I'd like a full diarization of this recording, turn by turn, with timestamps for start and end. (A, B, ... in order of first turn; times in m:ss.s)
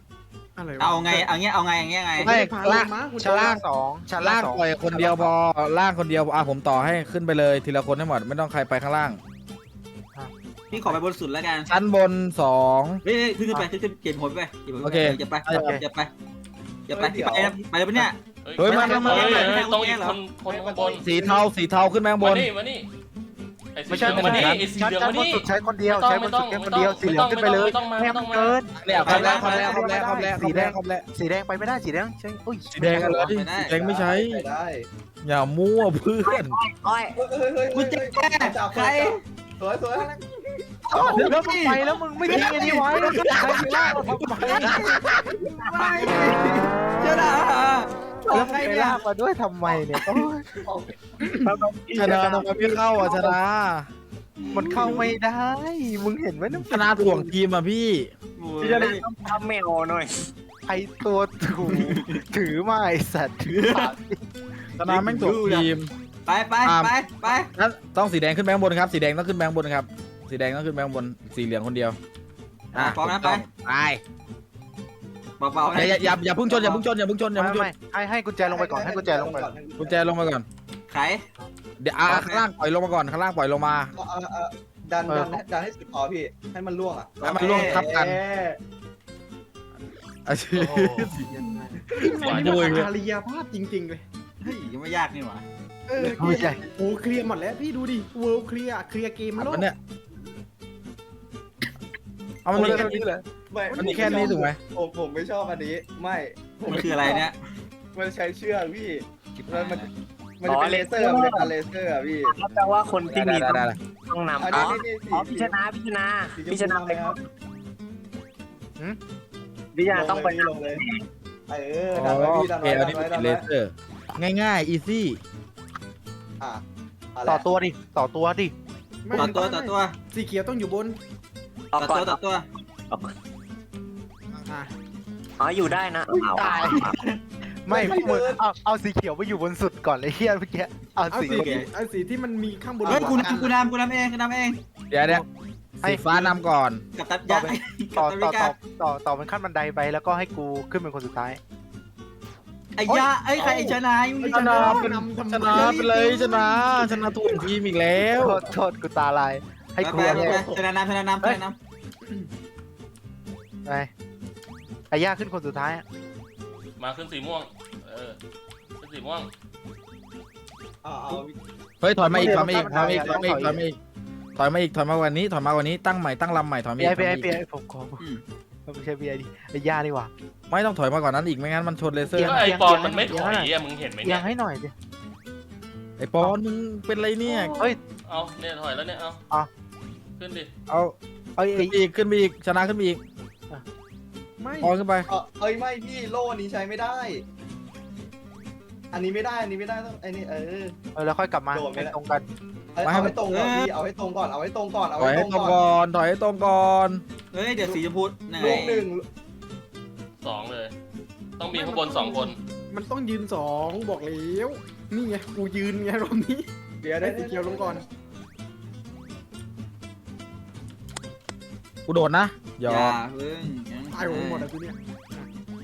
0:00.6-0:01.3 A
0:00.8-0:02.3 B
0:02.2-0:03.6 A
0:02.2-0:03.6 C
0:03.2-0:05.3 D
0:04.2-0:09.2 C
0:10.2-0:10.9 D
0:10.7-0:11.7 B
0:11.7-0:13.0 C
0:13.0-0:16.1 B
0:14.8-0:15.8 C
0:15.5-0:15.8 D
0:16.9-0:20.2 B
0:16.9-0:17.6 E
0:18.4-0:21.0 F
0:18.6-0:19.6 C
0:18.6-0:19.3 D
0:20.4-0:21.5 E
0:21.0-0:22.5 C
0:22.2-0:22.9 F
0:23.8-0:28.6 F
0:23.9-0:33.3 D
0:23.9-0:24.6 C
0:28.8-0:31.0 C
0:28.9-0:29.9 B
0:32.7-0:34.4 C
0:33.0-0:33.8 B
0:33.0-0:34.9 E
0:35.2-0:36.6 C
0:36.2-0:37.2 G
0:37.2-0:40.3 E
0:37.7-0:39.2 B
0:40.9-0:41.4 E
0:40.9-0:49.0 B
0:41.0-0:44.9 D
0:42.3-0:43.6 E
0:45.6-0:46.2 G
0:48.3-0:50.5 D
0:50.6-0:50.9 E
0:51.5-0:52.6 G
0:51.5-0:53.4 D
0:51.9-0:53.9 C
0:54.4-0:55.1 B
0:54.5-0:57.3 D
0:56.5-0:58.1 C
0:58.4-0:59.0 B
0:58.6-1:00.3 G
0:58.6-0:59.1 D
1:00.7-1:04.2 D
1:01.6-1:02.2 B
1:03.5-1:03.9 B
1:04.8-1:05.9 C
1:04.8-1:05.7 B
1:06.3-1:07.5 B
1:06.6-1:12.0 C
1:12.7-1:14.0 C
1:12.8-1:13.5 B
1:15.4-1:16.8 B
1:15.7-1:17.7 C
1:17.4-1:19.5 D
1:18.4-1:20.2 E
1:19.8-1:20.5 C
1:20.9-1:21.2 B
1:21.8-1:23.9 C
1:22.0-1:22.5 B
1:24.0-1:28.6 E
1:25.1-1:25.4 D
1:27.2-1:27.8 B
1:27.3-1:28.2 C
1:30.3-1:31.3 C
1:30.6-1:31.8 D
1:31.8-1:34.0 A
1:32.2-1:32.9 F
1:32.2-1:32.9 C
1:34.4-1:35.4 B
1:35.9-1:39.7 A
1:36.0-1:36.4 E
1:36.1-1:36.6 D
1:39.4-1:39.8 C
1:42.4-1:43.1 C
1:42.5-1:43.2 D
1:42.6-1:42.9 E
1:43.5-1:47.3 E
1:43.7-1:44.6 C
1:46.7-1:47.4 B
1:48.0-1:49.9 E
1:49.4-1:49.9 B
1:50.4-1:52.4 E
1:50.4-1:51.5 G
1:52.2-1:57.2 G
1:53.1-1:53.8 C
1:54.4-1:55.6 E
1:56.4-1:57.2 E
1:59.7-2:01.0 G
1:59.9-2:00.8 E
2:01.5-2:03.4 E
2:02.0-2:05.2 C
2:07.2-2:07.4 E
2:07.3-2:08.5 D
2:09.0-2:11.0 A
2:09.1-2:10.0 B
2:11.7-2:12.2 G
2:11.8-2:12.5 B
2:14.5-2:14.7 A
2:15.4-2:17.0 G
2:16.3-2:16.9 D
2:16.7-2:17.2 B
2:17.6-2:21.6 D
2:17.7-2:18.4 E
2:21.1-2:23.5 A
2:21.3-2:21.7 B
2:22.8-2:23.4 E
2:22.9-2:24.6 B
2:24.9-2:25.2 C
2:25.8-2:26.8 C
2:25.8-2:26.4 D
2:27.0-2:28.6 B
2:27.3-2:31.4 D
2:32.8-2:34.9 B
2:33.4-2:33.7 A
2:34.2-2:36.9 A
2:34.3-2:38.4 C
2:38.1-2:40.4 D
2:39.8-2:41.6 B
2:39.9-2:40.7 E
2:43.7-2:43.9 D
2:44.9-2:45.8 D
2:46.8-2:48.2 F
2:48.8-2:49.3 F
2:50.8-2:51.4 E
2:51.8-2:53.8 C
2:52.1-2:53.6 E
2:52.1-2:53.6 D
2:54.4-2:57.3 C
2:56.8-2:58.0 D
2:58.7-3:00.1 D
3:00.5-3:02.4 C
3:02.1-3:03.5 D
3:02.1-3:04.3 F
3:04.0-3:04.7 D
3:06.0-3:07.6 C
3:07.2-3:07.8 A
3:08.1-3:09.2 F
3:10.2-3:10.5 F
3:11.4-3:11.8 D
3:11.6-3:13.0 C
3:14.4-3:14.8 A
3:14.6-3:15.1 C
3:15.1-3:17.2 E
3:18.9-3:20.8 E
3:21.0-3:22.3 D
3:21.5-3:21.9 E
3:22.7-3:25.8 E
3:22.8-3:23.2 C
3:23.2-3:23.7 B
3:25.0-3:27.0 C
3:27.3-3:28.9 B
3:28.4-3:29.0 E
3:30.2-3:30.7 F
3:31.4-3:32.4 F
3:31.5-3:36.5 A
3:36.8-3:37.8 E
3:37.0-3:37.8 A
3:41.9-3:43.0 C
3:42.7-3:44.5 B
3:43.9-3:45.3 A